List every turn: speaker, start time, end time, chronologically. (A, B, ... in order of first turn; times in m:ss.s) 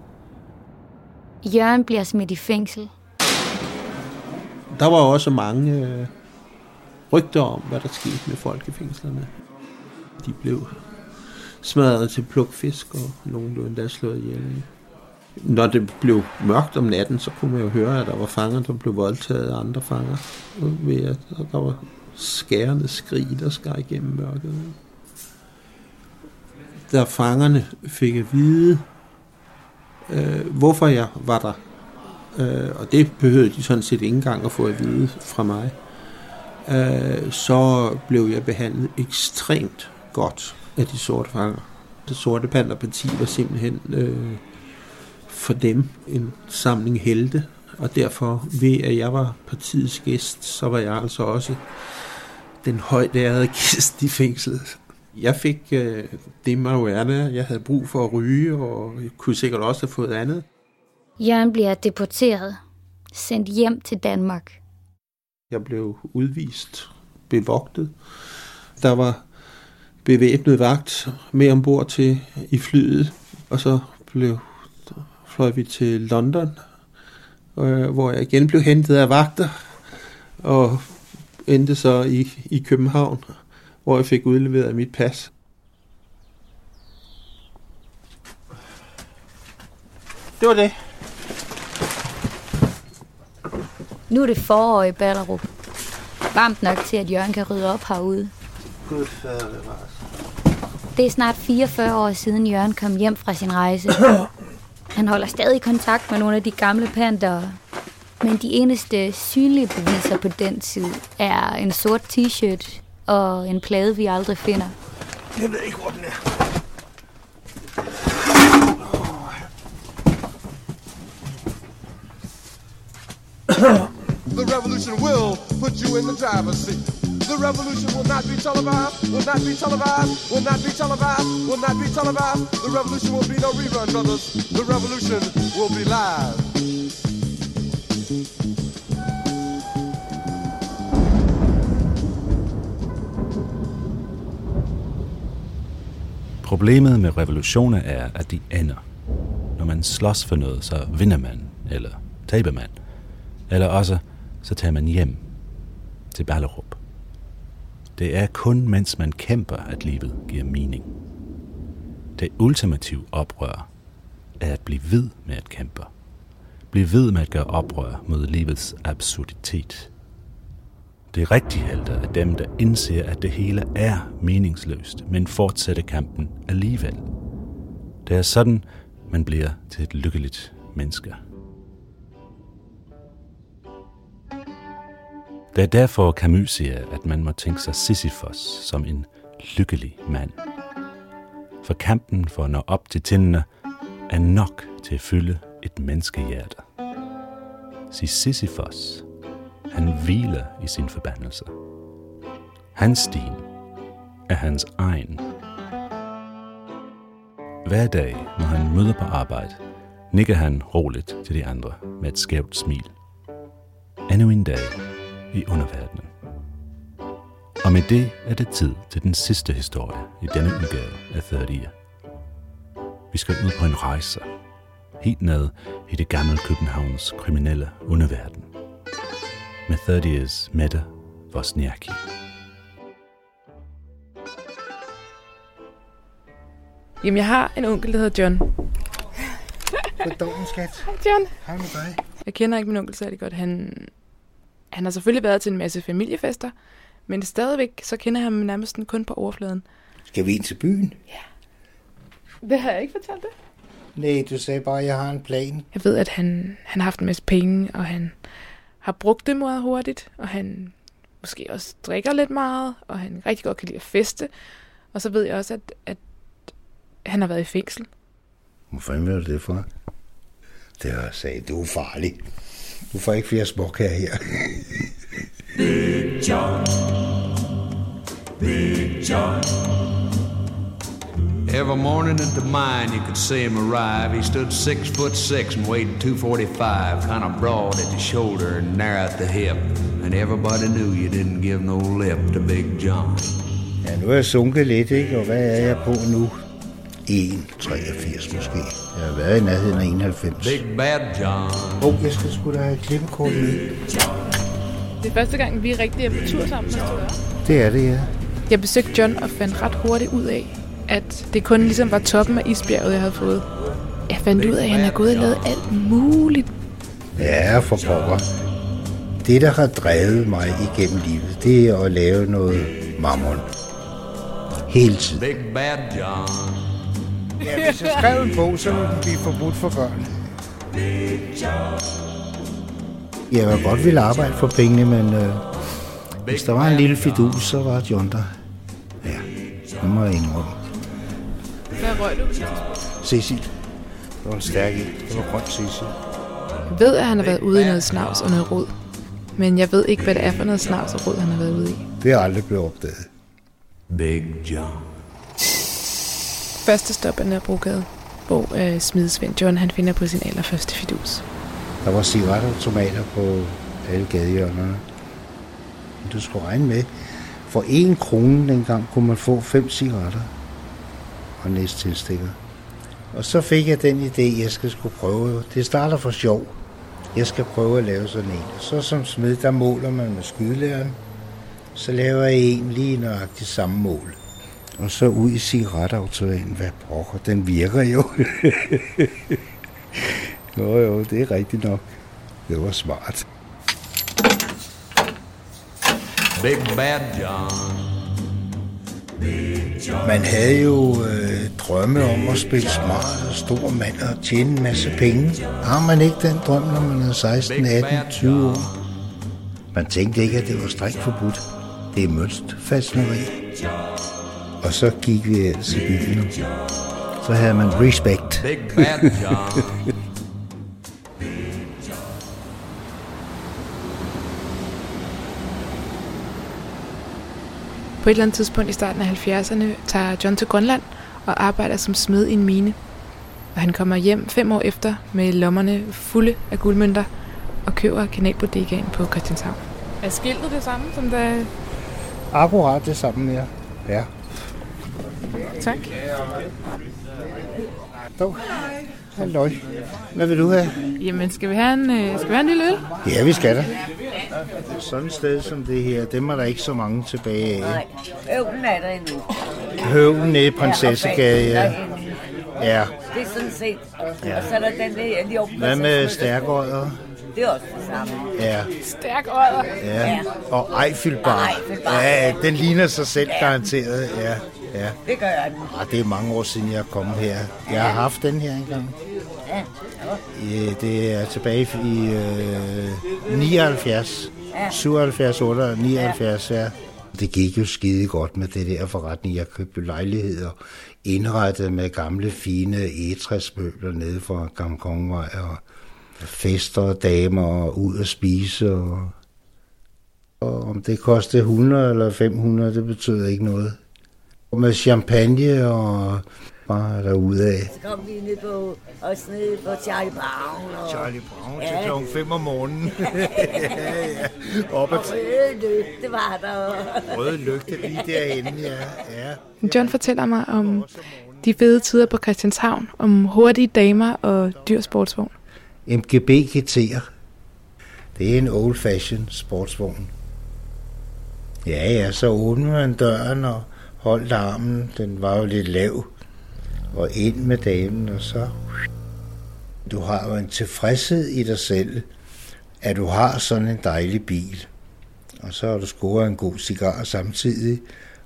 0:01.4-0:02.9 A
0:04.7-0:06.1 B
0:07.1-0:09.3 B
0:10.2-0:10.8 B
0:11.6-0:14.7 B
0:15.4-0:24.8 B
0:26.9-0:28.8 B
0:30.1-0:31.6 B
0:32.3-0:35.7 B
0:36.6-0:44.4 B
0:45.3-0:51.6 B
0:52.6-1:00.4 B
1:01.2-1:02.6 A
1:03.1-1:04.6 A
1:05.5-1:07.9 B
1:08.8-1:09.2 B
1:10.0-1:16.6 B
1:17.5-1:19.8 B
1:20.4-1:25.3 B
1:30.4-1:30.8 B
1:34.1-1:35.4 A
1:36.3-1:38.3 A
1:38.9-1:39.9 B
1:40.9-1:44.0 A
1:44.9-1:47.6 A
1:48.2-1:54.7 A
2:04.3-2:16.5 C
2:26.4-2:28.8 D
2:29.6-2:32.8 D
2:33.5-2:35.2 D
2:36.1-2:36.8 D
2:38.0-2:40.9 D
2:42.2-2:43.7 D
2:44.4-2:45.9 D
2:46.7-2:49.9 D
2:51.1-2:57.0 D
2:58.0-3:01.2 D
3:05.5-3:10.4 D
3:11.6-3:13.4 D
3:14.1-3:16.6 D
3:17.9-3:19.0 D
3:19.7-3:21.5 D
3:22.7-3:23.4 D
3:24.3-3:25.2 D
3:27.6-3:29.6 D
3:30.1-3:32.9 D
3:34.1-3:34.8 D
3:35.3-3:36.1 D
3:37.6-3:41.7 D
3:43.1-3:44.2 D
3:45.0-3:48.5 D
3:49.7-3:52.0 D
3:57.0-3:58.5 E
4:00.0-4:00.9 F
4:00.8-4:01.3 E
4:01.4-4:02.0 F
4:02.2-4:03.9 E
4:04.7-4:06.5 E
4:07.1-4:09.6 E
4:10.1-4:11.0 F
4:12.4-4:13.3 E
4:13.9-4:15.7 F
4:15.7-4:18.2 E
4:18.8-4:24.3 E
4:24.9-4:26.0 E
4:27.0-4:27.9 E
4:28.7-4:29.7 F
4:30.8-4:32.2 F
4:32.9-4:34.8 F
4:35.9-4:36.7 G
4:38.4-4:39.5 G
4:41.5-4:53.3 G
4:53.8-4:56.4 F
4:57.1-5:00.6 F
5:00.4-5:01.8 G
5:01.8-5:03.7 F
5:05.0-5:07.2 E
5:07.4-5:08.1 F
5:08.5-5:13.4 E
5:14.1-5:16.5 E
5:14.3-5:15.6 G
5:17.2-5:18.3 F
5:17.8-5:18.2 G
5:19.2-5:23.4 F
5:24.7-5:25.3 F
5:25.2-5:26.7 G
5:27.4-5:30.1 F
5:33.3-5:35.4 F
5:36.2-5:37.4 G
5:36.3-5:38.3 F
5:39.8-5:40.6 F
5:41.8-5:42.6 E
5:43.0-5:43.5 F
5:44.2-5:46.0 F
5:46.7-5:48.7 E
5:47.2-5:48.4 G
5:49.4-5:51.8 E
5:52.0-5:53.1 F
5:53.9-5:54.9 G
5:56.6-6:01.2 E
6:01.8-6:04.8 F
6:06.0-6:06.9 F
6:07.4-6:10.3 F
6:11.4-6:12.4 F
6:13.1-6:16.6 F
6:17.1-6:21.0 F
6:21.7-6:24.2 F
6:24.8-6:29.3 F
6:30.0-6:31.8 F
6:32.5-6:33.2 F
6:36.4-6:37.9 G
6:40.0-6:48.7 F
6:47.4-6:48.7 G
6:49.7-6:53.4 F
6:54.6-6:56.4 F
6:57.2-6:59.3 F
6:58.4-6:59.7 G
7:08.0-7:12.8 E
7:13.5-7:17.1 E
7:17.6-7:21.5 E
7:22.3-7:24.1 F
7:25.6-7:25.9 E
7:29.1-7:29.6 F
7:30.1-7:30.8 F
7:31.0-7:32.8 E
7:33.0-7:33.7 F
7:34.7-7:37.8 F
7:37.6-7:39.2 H
7:39.8-7:41.8 F
7:40.6-7:42.1 H
7:42.6-7:43.0 F
7:43.1-7:46.4 H
7:44.2-7:44.5 F
7:45.5-7:47.0 F
7:47.3-7:48.3 H
7:48.4-7:48.7 F
7:48.8-7:49.7 E
7:49.8-7:55.0 F
7:50.0-7:50.2 H
7:51.2-7:52.3 H
7:55.1-7:55.5 H
7:55.6-7:59.0 F
8:00.3-8:15.6 F
8:16.2-8:19.1 F
8:20.4-8:23.8 F
8:24.5-8:27.7 F
8:27.7-8:32.0 H
8:30.8-8:35.2 F
8:33.4-8:33.7 H
8:34.9-8:38.0 H
8:37.1-8:39.8 F
8:39.6-8:40.9 E
8:41.4-8:45.3 E
8:45.9-8:47.1 F
8:48.2-8:50.1 F
8:51.6-8:56.1 F
8:56.9-8:58.6 F
8:59.9-9:02.1 F
9:02.8-9:04.7 F
9:05.4-9:07.8 F